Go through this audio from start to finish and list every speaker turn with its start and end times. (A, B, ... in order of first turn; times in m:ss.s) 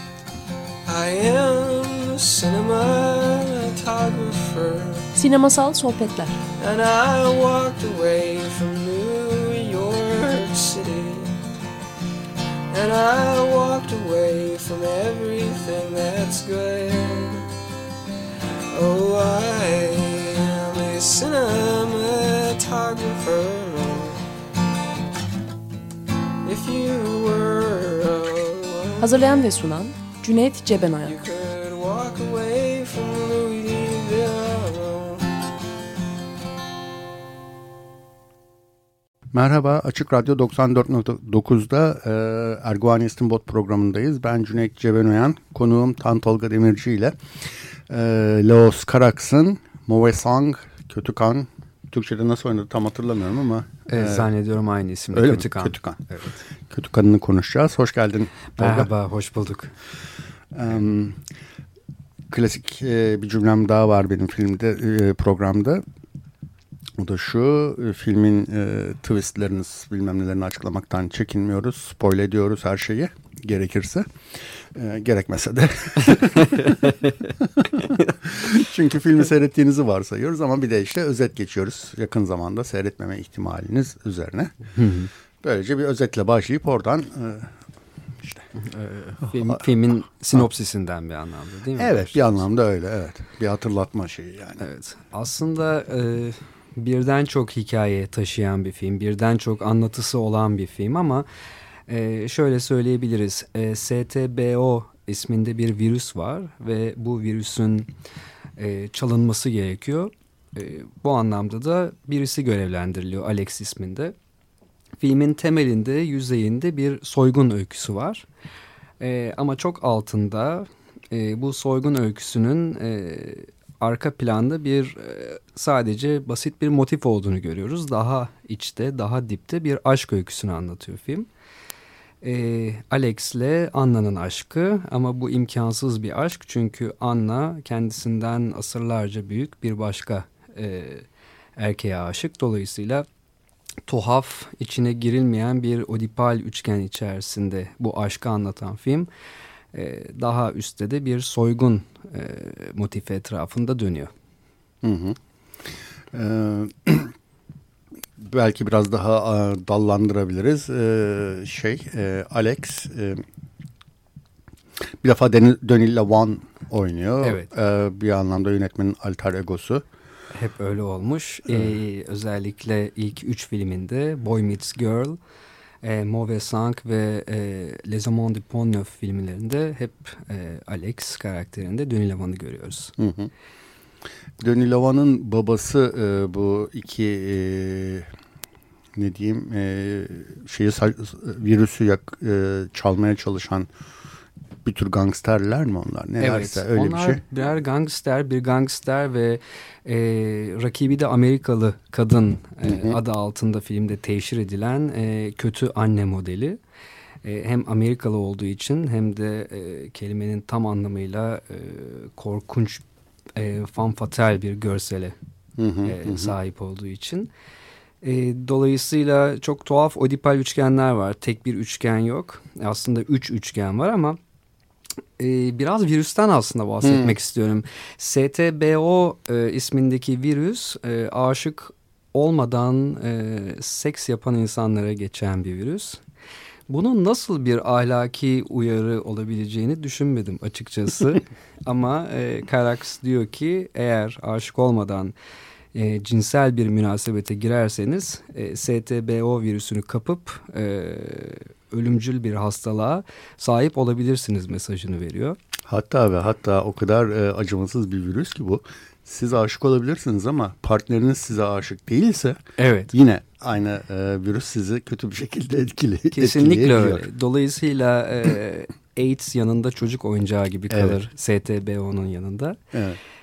0:00.8-0:05.1 A
0:05.2-0:06.4 B
0:06.6-0:11.3 A
0:12.7-0:17.5 A
0:18.7-0:24.2 A
0:26.4-0:29.4 A
0:29.0-0:31.1 B
0:31.0-0:35.3 A
0:39.3-0:54.3 C
0:53.9-0:56.4 D
0:55.1-0:58.9 C
0:58.6-0:59.7 D
1:00.5-1:01.2 C
1:02.3-1:05.8 C
1:07.0-1:24.5 C
1:16.6-1:17.1 D
1:24.7-1:25.1 D
1:25.4-1:27.6 C
1:28.2-1:28.5 C
1:28.5-1:32.4 D
1:29.2-1:29.7 C
1:31.8-1:34.6 C
1:34.6-1:41.2 D
1:41.9-1:47.9 D
1:48.6-1:54.1 D
1:55.0-1:58.2 D
1:59.0-2:11.3 D
2:12.2-2:21.0 D
2:21.6-2:23.0 D
2:23.9-2:29.1 D
2:29.7-2:34.1 D
2:34.8-2:37.1 C
2:38.2-2:43.2 C
2:45.0-2:49.8 C
2:47.2-2:47.5 D
2:50.3-2:55.2 D
2:55.8-3:02.9 D
3:03.0-3:03.3 C
3:04.4-3:08.1 C
3:09.0-3:13.7 C
3:14.6-3:17.2 C
3:16.2-3:26.6 D
3:22.6-3:23.0 C
3:27.2-3:32.8 D
3:33.4-3:35.1 D
3:35.6-3:36.3 C
3:35.8-3:37.3 D
3:38.0-3:44.2 D
3:45.2-3:56.0 D
3:46.8-3:47.2 C
3:56.7-4:05.1 D
4:05.7-4:15.4 D
4:15.6-4:27.1 C
4:22.6-4:22.9 D
4:26.1-4:32.6 D
4:30.7-4:31.0 C
4:32.7-4:33.0 C